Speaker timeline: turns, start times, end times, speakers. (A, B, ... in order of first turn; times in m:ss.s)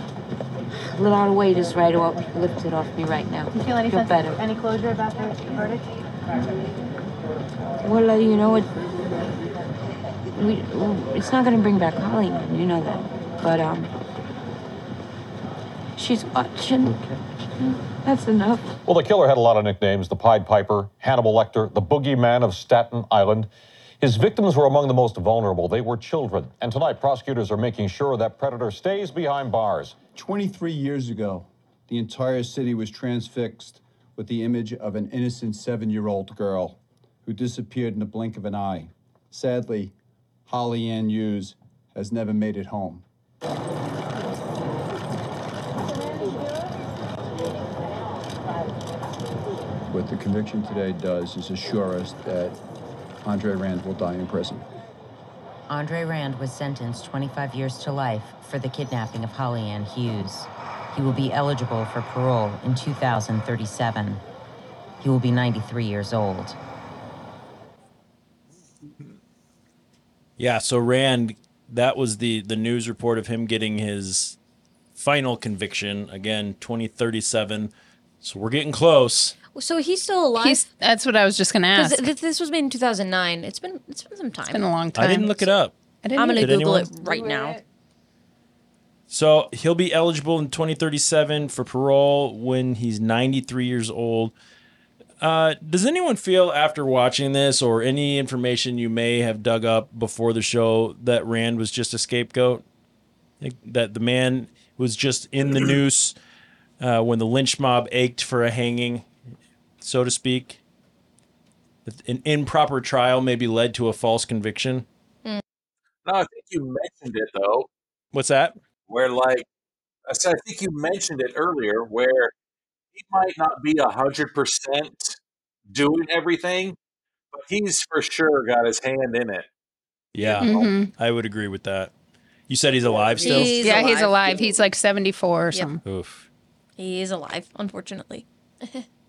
0:00.8-0:04.4 A
0:03.5-0:05.9 B
0:07.8-0:08.7 A
0:10.3-0:13.9 A
0:16.0-0:17.0 A
0:17.6-0:18.7 A
0:18.8-0:23.5 C
0:24.0-0:30.0 C
0:30.1-0:39.9 D
0:40.5-0:43.0 D
0:49.9-0:52.6 D
0:53.2-0:54.6 D
0:55.7-1:04.2 A
1:05.0-1:06.6 A
1:10.4-1:14.4 E
1:15.0-1:19.3 E
1:19.5-1:20.6 F
1:20.4-1:22.1 G
1:21.7-1:24.7 F
1:24.5-1:25.4 G
1:24.9-1:25.8 E
1:26.0-1:27.6 G
1:26.2-1:27.6 F
1:26.4-1:26.9 E
1:29.1-1:34.3 E
1:35.2-1:42.6 E
1:43.4-1:46.1 E
1:46.8-1:49.0 E
1:49.8-1:50.6 E
1:51.8-1:54.8 E
1:56.0-1:57.7 H
1:58.1-1:58.5 E
1:58.9-1:59.4 H
2:00.1-2:02.3 H
2:02.9-2:05.2 H
2:05.7-2:06.8 H
2:07.3-2:09.5 H
2:10.2-2:11.9 E
2:10.2-2:10.7 H
2:10.4-2:10.9 G
2:12.5-2:13.8 E
2:12.9-2:13.4 H
2:13.2-2:14.5 F
2:13.5-2:15.8 G
2:15.8-2:16.2 E
2:16.8-2:18.8 F